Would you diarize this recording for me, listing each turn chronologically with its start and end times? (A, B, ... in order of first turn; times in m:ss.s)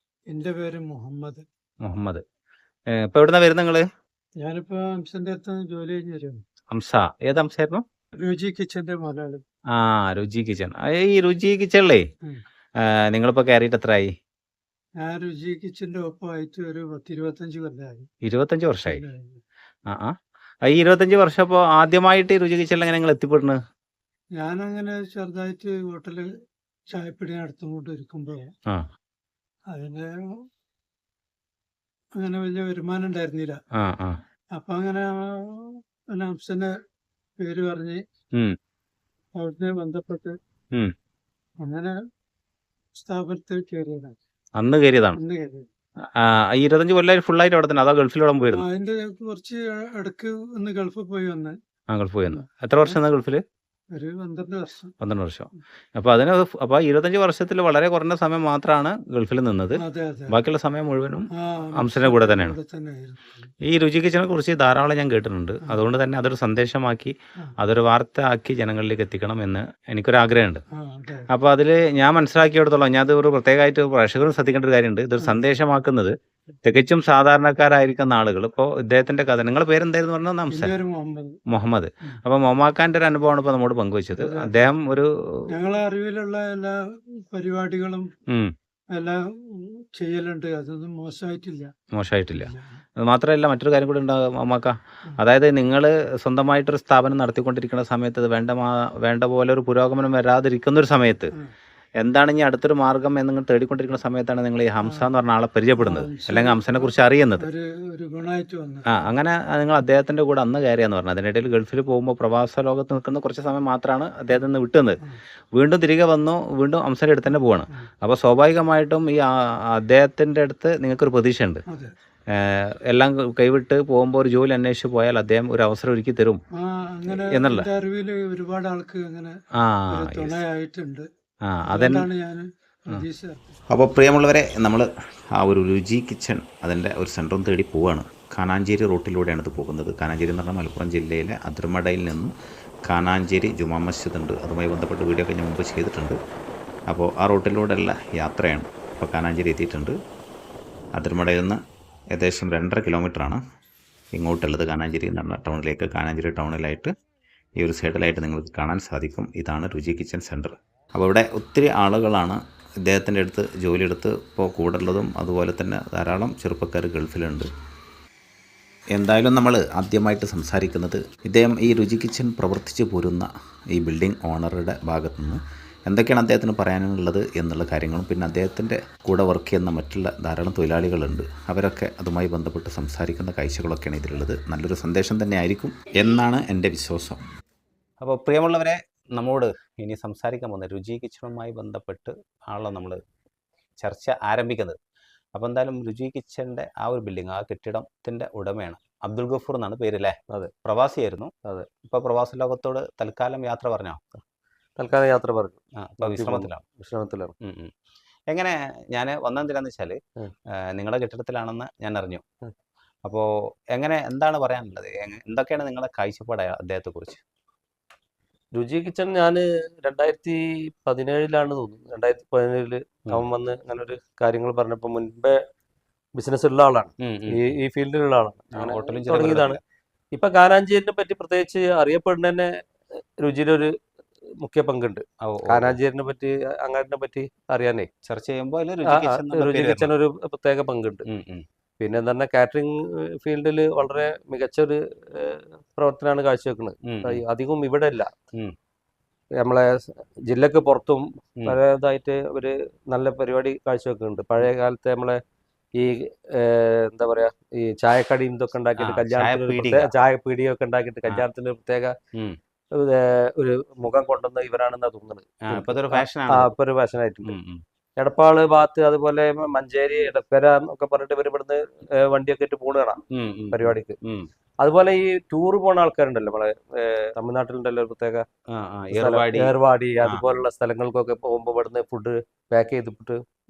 0:00.3-0:01.4 A
0:01.8-0:02.2 B
0:02.9-0:03.8 B
0:04.4-0:06.4 A
0:06.7-0:07.8 B
0:08.2-0:09.4 A
0:09.7-0:12.0 B
0:12.8-0:14.1 B
0:15.0-0:18.1 A
0:18.2-0:19.0 B
0:18.8-0:19.4 A
0:20.6-0:23.6 B
0:24.4-0:26.3 A
0:26.9-0:28.5 A
0:29.7-0:30.1 A
0:32.2-0:33.6 A
0:33.8-0:34.2 B
0:34.5-0:36.8 A
0:37.4-0:38.0 A
0:39.4-0:40.3 A
0:41.6-0:41.9 A
0:42.9-0:44.2 A
0:44.6-0:45.2 B
0:45.1-0:45.7 A
0:46.2-0:48.7 B
0:48.5-0:51.6 A
0:51.9-0:53.4 B
0:53.9-0:54.9 A
0:55.0-0:59.8 B
0:59.7-1:00.4 A
1:00.3-1:02.6 B
1:01.4-1:03.5 A
1:03.6-1:10.6 B
1:10.7-1:11.3 A
1:11.3-1:16.1 B
1:16.6-1:20.7 B
1:20.5-1:21.4 A
1:21.5-1:25.4 B
1:24.1-1:24.7 A
1:25.5-1:26.8 A
1:27.3-1:28.1 A
1:28.9-1:31.7 A
1:31.9-1:41.3 B
1:32.3-1:32.8 A
1:42.0-1:47.5 B
1:44.8-1:45.1 A
1:45.7-1:49.1 A
1:48.9-1:55.0 B
1:55.5-1:59.2 B
1:59.8-2:01.6 B
2:02.3-2:06.4 B
2:06.6-2:09.4 A
2:07.1-2:07.7 B
2:09.6-2:10.4 B
2:09.9-2:11.0 A
2:11.5-2:12.1 B
2:11.7-2:13.5 A
2:13.7-2:22.3 B
2:22.9-2:26.2 B
2:26.9-2:29.9 B
2:30.9-2:31.6 B
2:32.1-2:33.4 B
2:34.1-2:36.9 B
2:37.6-2:47.5 B
2:48.9-3:07.2 B
3:08.0-3:13.0 B
3:13.8-3:14.8 B
3:15.3-3:24.0 B
3:21.4-3:21.8 C
3:24.8-3:27.3 C
3:25.8-3:26.6 B
3:27.4-3:27.7 B
3:28.3-3:30.0 B
3:30.7-3:32.2 B
3:33.0-3:37.2 B
3:38.5-3:45.4 C
3:46.1-3:49.6 C
3:47.0-3:47.4 B
3:48.5-3:49.6 B
3:50.1-3:53.7 C
3:54.4-3:57.9 C
3:55.2-3:55.8 B
3:58.0-3:59.9 B
3:58.8-4:01.1 C
4:01.1-4:01.4 B
4:01.8-4:08.2 C
4:06.8-4:07.2 B
4:09.3-4:15.2 C
4:15.7-4:22.0 C
4:18.8-4:19.9 B
4:22.7-4:27.4 C
4:25.4-4:26.5 B
4:27.2-4:27.6 B
4:28.0-4:33.0 C
4:33.1-4:34.3 B
4:33.5-4:33.9 C
4:34.6-4:38.3 C
4:38.5-4:40.2 B
4:38.9-4:43.2 C